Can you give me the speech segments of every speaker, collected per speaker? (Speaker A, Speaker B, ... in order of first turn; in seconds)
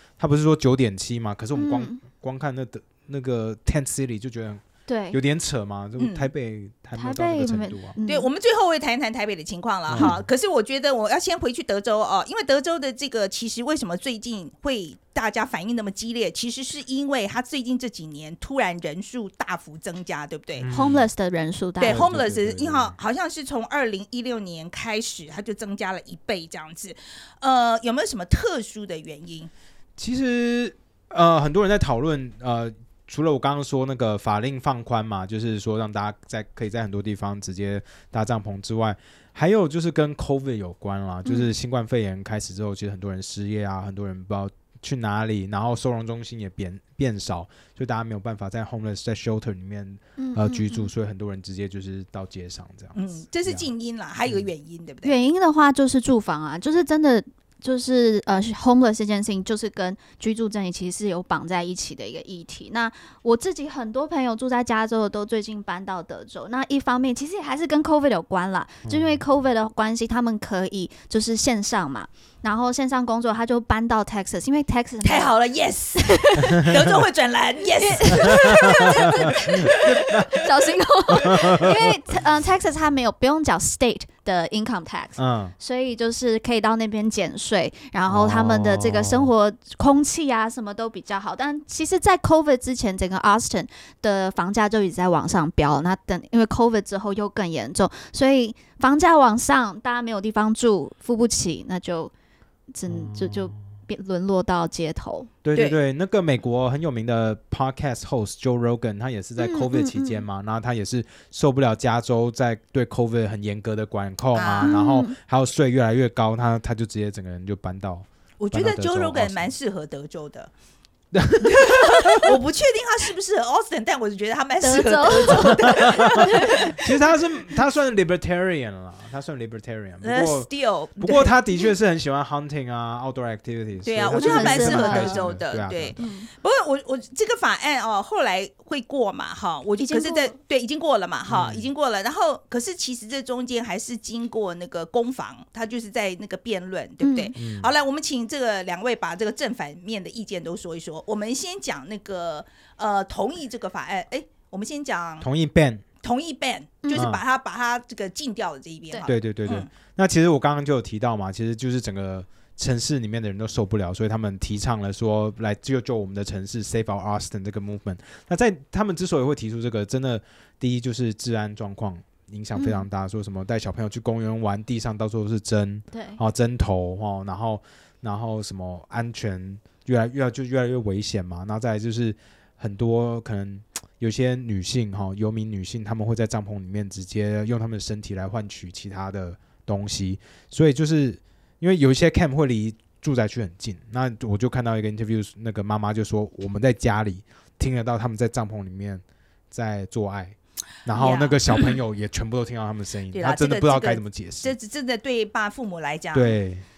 Speaker A: 0.2-8.0, 9.9-10.2, 20.6-21.1, 21.9-23.0, 30.0-53.7, 68.8-69.2, 78.2-78.6, 79.5-80.4, 81.2-81.8, 85.2-85.5, 88.1-89.3, 102.9-103.6, 105.4-119.5, 121.1-122.3, 125.7-130.5, 131.0-136.0, 141.3-141.7, 147.3-147.7, 155.2-155.8, 156.9-157.2, 159.0-204.5, 206.1-206.6
Speaker B: 1.6-2.0, 4.9-5.2, 6.9-8.3, 20.7-22.0, 50.2-50.9, 55.0-75.3, 76.0-76.7, 77.8-102.1, 102.7-105.3, 109.4-110.2, 114.6-115.1, 124.6-126.8, 134.2-135.2, 136.0-136.3, 139.8-140.3, 147.0-147.3, 172.5-172.8, 175.9-176.2
Speaker C: 6.0-6.3, 8.1-20.7, 21.8-29.5, 52.9-55.1, 75.0-80.5, 114.3-114.8, 118.4-120.5, 121.4-127.1, 130.0-131.4, 133.8-155.3, 156.0-159.7, 200.9-201.8, 203.1-206.4